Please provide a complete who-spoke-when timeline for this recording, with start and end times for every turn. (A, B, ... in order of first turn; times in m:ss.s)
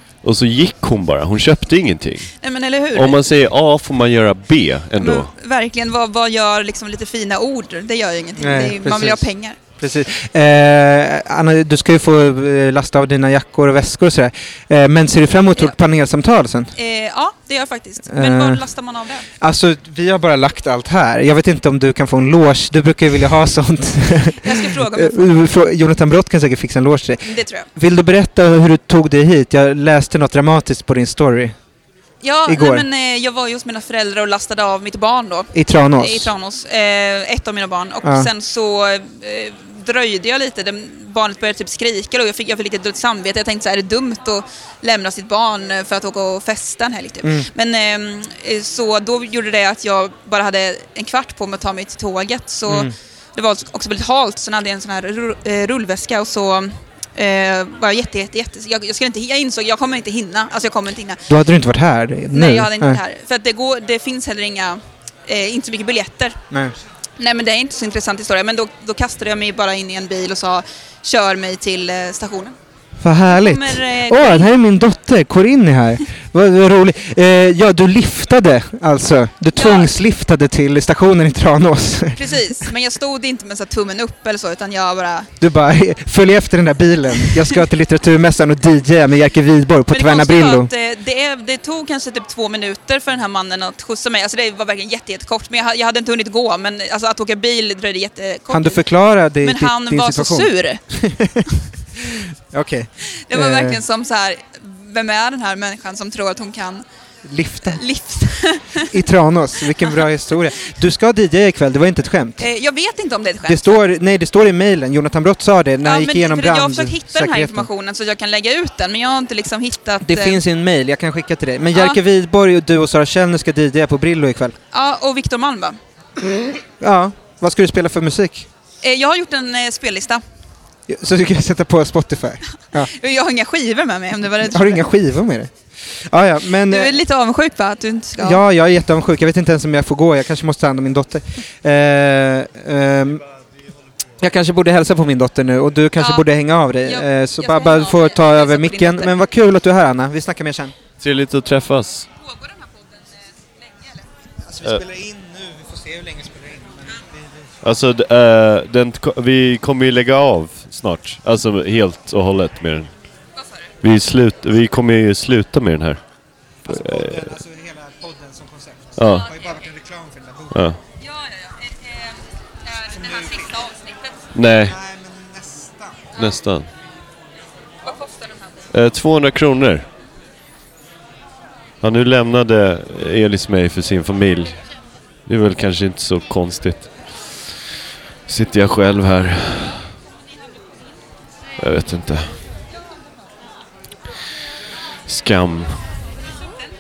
0:00.2-0:02.3 A
0:02.4-0:03.2 B
0:02.9-0:05.3 A
0:05.0-0:09.6 B
0:08.4-0:16.7 C
0:16.8-0:19.3 B
0:18.1-0:18.7 C
0:19.4-0:31.6 C
0:24.4-0:25.2 B
0:27.2-0:27.7 B
0:32.2-1:01.2 B
0:32.5-0:32.8 C
0:35.5-0:36.3 C
0:38.0-0:38.3 C
0:52.7-0:52.9 C
1:01.3-1:03.0 C
1:02.3-1:06.4 B
1:07.2-1:12.6 B
1:13.0-1:22.6 C
1:13.3-1:14.5 B
1:19.5-1:20.0 B
1:22.2-1:25.3 B
1:25.4-1:30.7 C
1:29.9-1:38.8 B
1:38.5-1:43.8 C
1:39.4-1:40.8 B
1:43.3-1:46.8 B
1:47.3-1:47.8 C
1:47.7-1:48.9 B
1:48.9-1:52.4 C
1:52.4-1:53.6 B
1:53.4-1:57.7 C
1:55.8-2:00.4 B
2:00.0-2:04.6 C
2:01.7-2:02.0 B
2:04.7-2:05.8 B
2:06.8-2:08.5 C
2:08.8-2:10.2 B
2:10.9-2:12.9 C
2:12.9-2:14.8 B
2:14.4-2:16.9 C
2:16.7-2:18.4 B
2:18.2-2:23.2 C
2:24.2-2:30.7 C
2:26.0-2:26.3 B
2:26.8-2:29.1 B
2:31.0-2:32.1 A
2:32.2-2:32.7 B
2:34.5-2:37.0 C
2:37.6-2:42.9 A
2:43.8-2:46.0 A
2:46.7-2:47.2 A
2:46.7-2:48.4 C
2:49.0-2:49.3 A
2:49.4-2:50.5 C
2:50.5-2:50.8 A
2:51.1-2:54.0 B
2:54.3-2:54.8 A
2:56.2-2:56.7 A
2:58.7-2:59.9 A
3:01.8-3:04.7 A
3:05.2-3:07.5 A
3:08.3-3:09.9 A
3:11.6-3:12.4 A
3:15.1-3:16.1 A